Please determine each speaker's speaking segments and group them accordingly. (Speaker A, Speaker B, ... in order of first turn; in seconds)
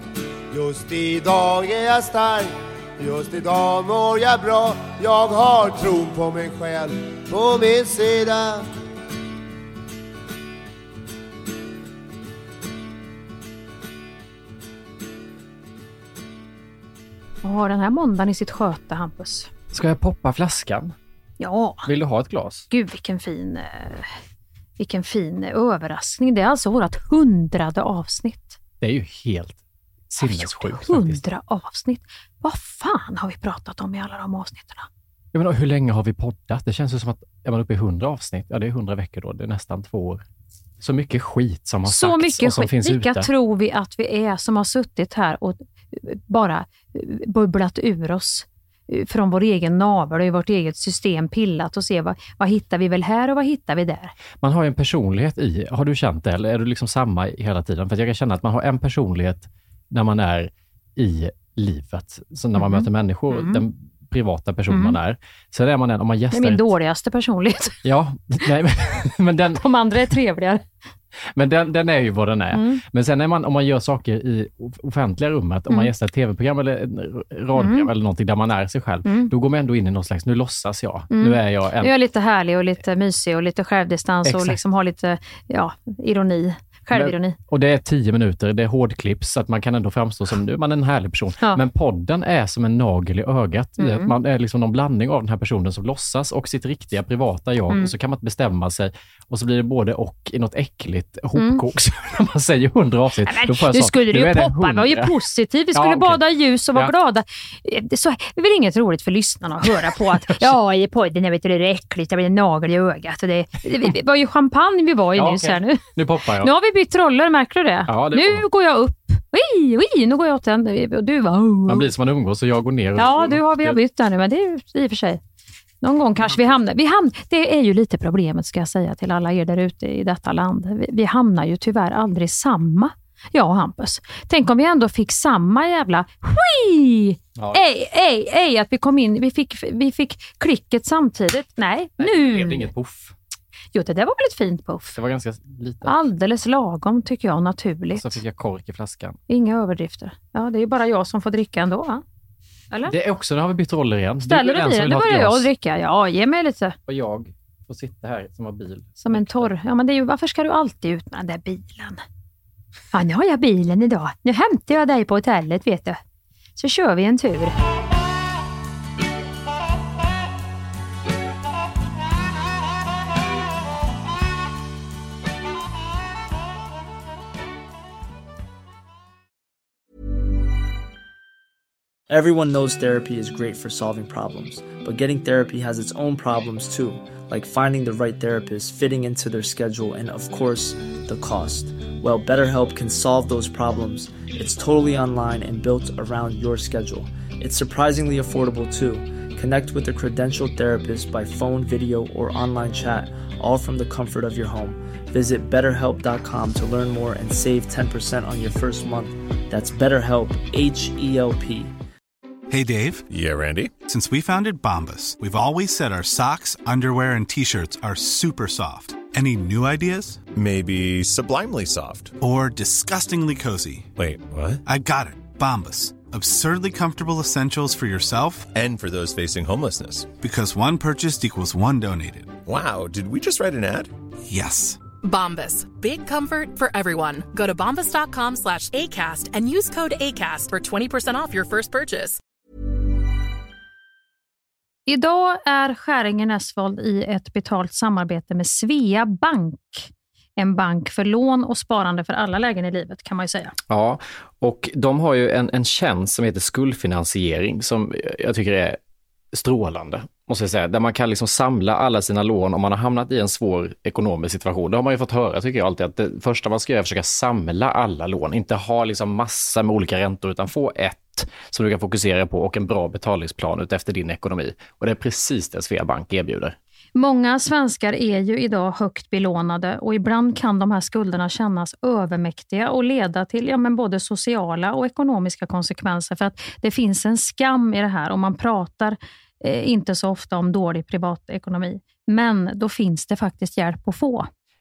Speaker A: 0.5-8.6
Speaker B: 17.4-19.5, 21.4-21.9, 22.7-24.2, 24.8-28.6, 30.2-34.9, 41.8-54.1, 62.5-63.6, 64.7-65.0, 66.3-67.8, 69.6-70.6, 72.5-72.8, 77.5-77.9, 79.0-79.3, 81.1-87.4, 93.8-94.1, 101.3-101.6, 103.2-115.8, 116.4-121.9, 123.0-125.2, 125.8-142.7, 143.7-145.0, 145.8-148.1, 149.3-152.0, 154.2-156.8, 159.0-162.0, 162.9-166.0, 166.6-167.5, 244.9-253.5, 276.9-294.3
Speaker C: 19.7-20.9, 21.8-22.7, 28.8-29.6, 30.1-31.2, 35.3-40.2, 40.8-43.3, 54.4-66.7, 67.8-69.6, 71.3-81.9, 84.2-84.6, 86.9-105.1, 105.7-106.2, 110.3-110.5, 115.2-116.5, 117.9-118.4, 121.7-123.8, 137.3-137.6, 142.0-143.1, 144.9-146.0, 147.9-149.2, 152.8-155.5, 156.9-159.5, 253.7-258.8, 259.3-276.5
Speaker D: 182.1-211.7
Speaker E: 212.5-213.0, 213.8-220.2, 222.2-223.9, 224.6-228.5, 230.2-232.4, 234.3-234.8
Speaker F: 213.1-213.8, 220.3-222.2, 223.9-224.6, 228.5-230.1, 232.4-233.9
Speaker G: 235.0-242.2